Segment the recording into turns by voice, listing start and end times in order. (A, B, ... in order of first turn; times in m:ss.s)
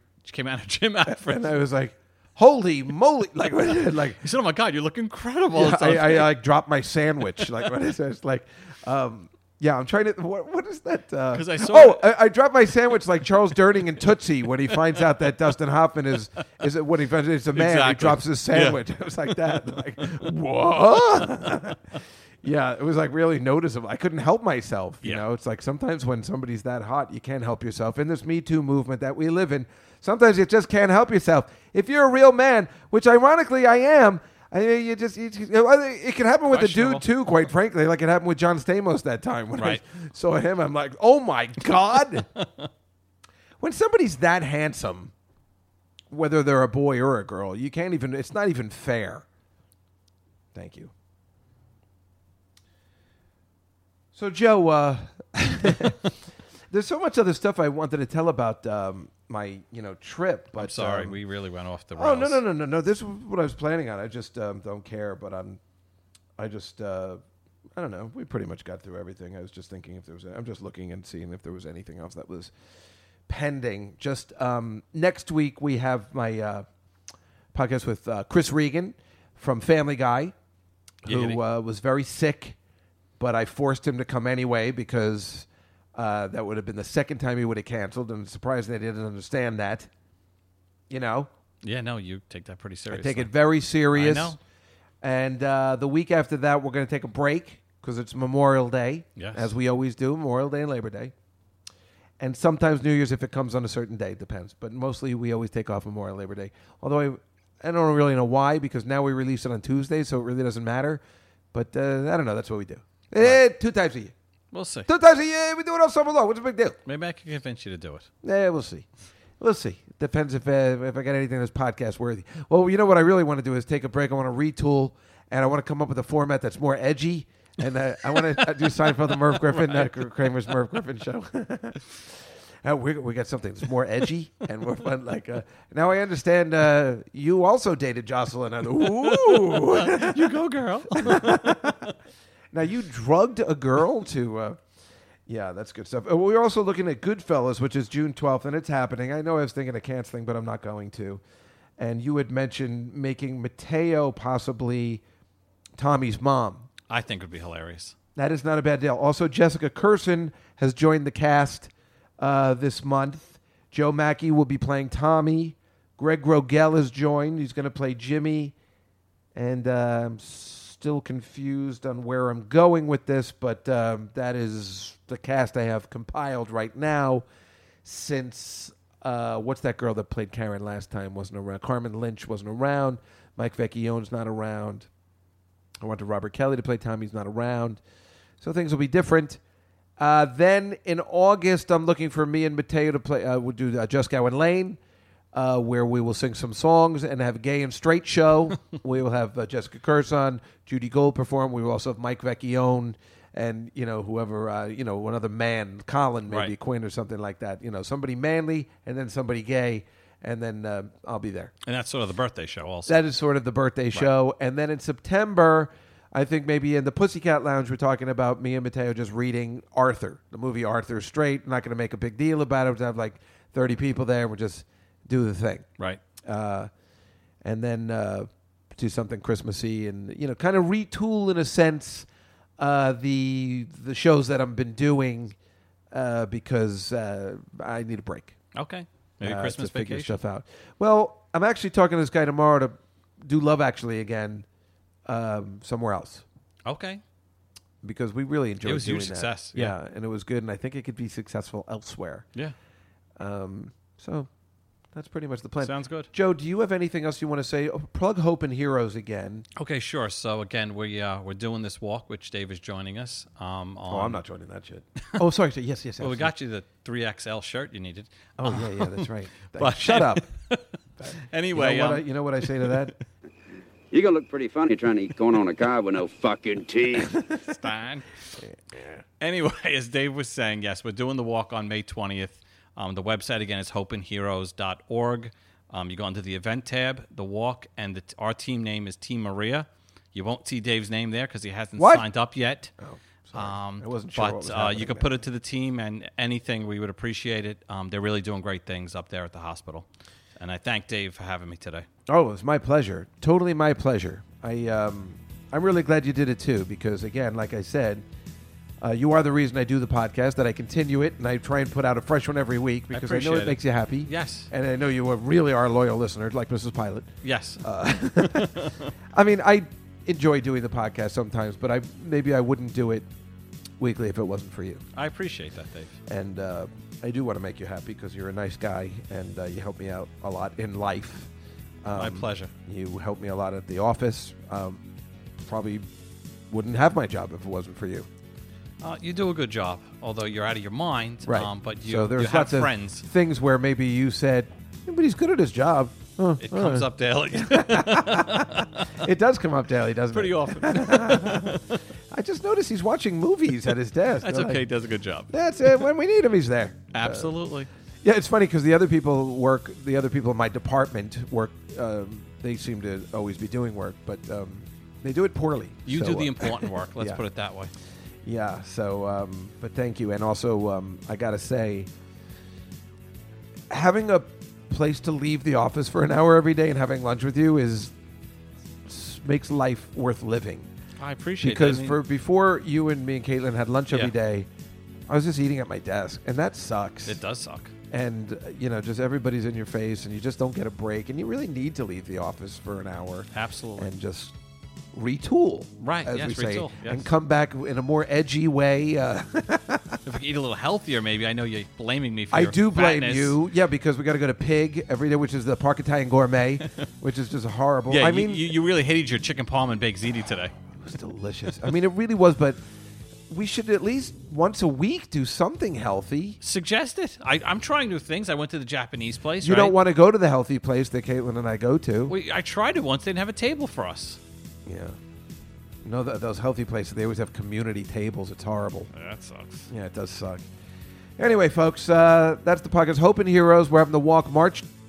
0:00.2-0:01.5 A
0:01.1-0:04.2 B
0:04.2-0:06.4 A
0:05.5-0:21.8 B
0:11.3-0:12.1 A
0:17.5-0:18.8 A
0:22.4-0:42.3 B
0:36.5-0:37.1 A
0:39.6-0:39.8 A
0:42.4-0:42.7 A
0:43.6-0:45.1 B
0:46.1-0:49.2 B
0:50.5-0:50.9 B
0:54.1-0:56.1 B
0:56.7-1:01.2 B
1:00.6-1:02.4 A
1:02.0-1:05.6 B
1:06.4-1:07.2 B
1:07.7-1:12.5 B
1:13.3-1:16.6 B
1:17.5-1:20.3 B
1:21.0-1:22.6 B
1:21.0-1:21.4 A
1:23.2-1:29.9 B
1:30.9-1:31.3 B
1:31.6-1:33.3 A
1:32.9-1:34.4 B
1:33.9-1:34.4 A
1:35.0-1:41.1 B
1:39.2-1:39.5 A
1:42.2-1:54.1 B
1:54.5-1:54.9 A
1:54.8-1:56.8 B
1:56.8-1:58.1 A
1:58.2-1:58.8 B
1:59.4-2:11.8 B
2:09.4-2:10.1 A
2:12.6-2:21.8 B
2:18.8-2:21.9 A
2:22.5-2:24.6 B
2:25.3-2:31.2 B
2:31.8-2:35.0 B
2:35.8-2:36.7 B
2:36.9-2:37.9 A
2:38.2-2:48.5 B
2:49.3-2:57.2 B
2:57.8-3:04.9 B
3:05.8-3:07.8 B
3:08.4-3:09.4 B
3:10.0-3:14.8 B
3:15.3-3:31.5 B
3:26.3-3:26.5 A
3:31.6-3:33.0 A
3:32.8-3:45.7 B
3:46.2-3:46.7 B
3:47.4-3:52.1 B
3:52.6-3:55.3 B
3:55.9-3:58.4 B
3:58.5-4:00.2 A
3:59.2-4:04.4 B
4:05.0-4:06.2 B
4:06.6-4:07.0 A
4:07.8-4:12.3 B
4:08.6-4:09.7 A
4:13.2-4:14.3 B
4:14.9-4:19.5 B
4:15.6-4:16.1 A
4:19.6-4:24.2 A
4:23.9-4:26.3 B
4:26.0-4:32.9 A
4:28.4-4:30.3 B
4:31.0-4:32.9 B
4:33.9-4:37.1 C
4:37.4-4:38.1 A
4:38.4-4:39.0 B
4:39.2-4:52.7 A
4:51.8-4:52.1 B
4:52.8-4:55.2 B
4:53.3-4:59.8 A
5:00.4-5:01.8 A
5:02.1-5:08.0 B
5:08.8-5:17.1 B
5:12.9-5:14.5 A
5:17.2-5:17.6 A
5:17.6-5:18.6 B
5:18.3-5:18.8 A
5:19.1-5:23.1 B
5:23.8-5:24.8 B
5:24.9-5:26.0 A
5:26.1-5:31.3 B
5:31.8-5:34.8 B
5:31.9-5:32.5 A
5:35.4-5:35.9 B
5:36.5-5:38.1 B
5:38.8-5:43.0 A
5:41.2-5:54.6 B
5:46.4-5:48.9 A
5:50.1-5:51.8 A
5:54.2-5:55.8 A
5:55.3-5:57.4 B
5:56.9-5:57.7 A
5:58.0-6:07.2 B
6:05.8-6:07.7 A
6:08.2-6:11.9 B
6:13.7-6:17.9 B
6:18.8-6:20.7 B
6:21.0-6:22.0 A
6:21.4-6:24.5 B
6:25.1-6:27.2 B
6:27.0-6:27.7 A
6:27.9-6:34.3 B
6:33.3-6:33.9 A
6:34.9-6:40.0 B
6:35.8-6:37.1 A
6:40.0-6:43.4 A
6:42.3-6:48.5 B
6:47.9-6:50.5 A
6:50.8-6:52.6 B
6:53.3-6:56.4 B
6:56.4-6:59.8 A
6:59.4-7:02.1 B
7:02.1-7:04.2 A
7:04.6-7:05.0 B
7:05.8-7:08.9 B
7:08.9-7:09.7 A
7:09.7-7:10.4 B
7:11.2-7:14.7 B